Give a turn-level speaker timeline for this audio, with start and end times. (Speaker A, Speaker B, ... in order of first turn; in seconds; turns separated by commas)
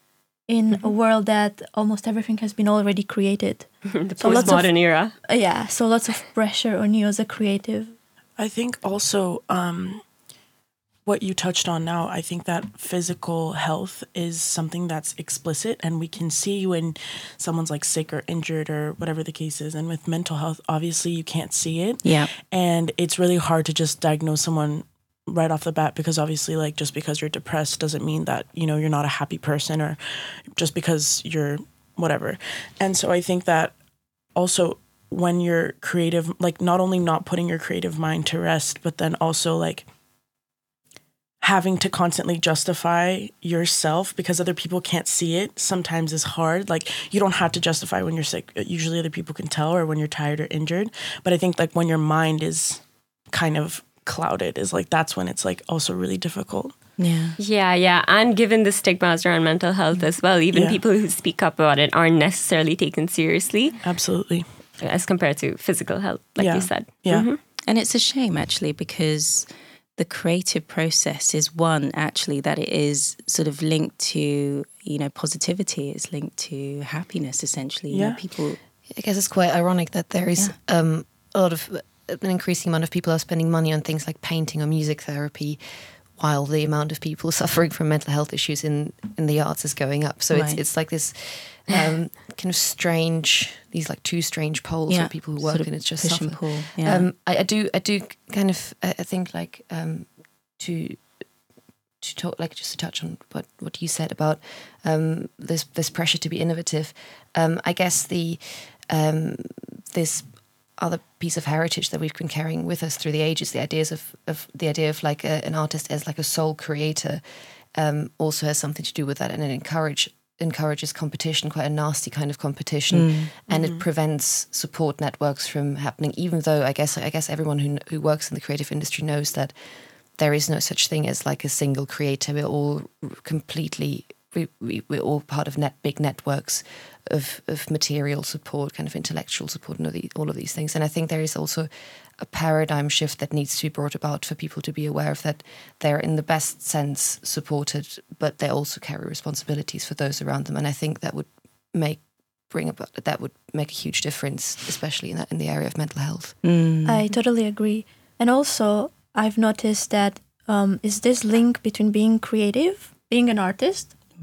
Speaker A: 0.5-8.0, Speaker B: 3.9-5.1, Speaker C: 4.2-4.6, Speaker C: 8.4-10.0, Speaker C: 11.0-33.8, Speaker D: 22.0-22.3, Speaker C: 34.3-39.9, Speaker C: 41.4-56.7, Speaker D: 57.0-57.4, Speaker B: 57.4-63.8, Speaker C: 60.5-60.8, Speaker C: 63.8-64.5, Speaker B: 64.8-67.4, Speaker C: 66.3-67.3, Speaker D: 67.7-69.5, Speaker D: 70.0-78.6, Speaker C: 77.9-78.2, Speaker E: 78.9-85.6, Speaker E: 86.1-101.1, Speaker D: 90.3-90.6, Speaker D: 94.9-97.1, Speaker E: 102.0-156.4, Speaker D: 122.9-123.3, Speaker C: 123.5-123.8, Speaker D: 156.4-157.1, Speaker A: 156.8-163.9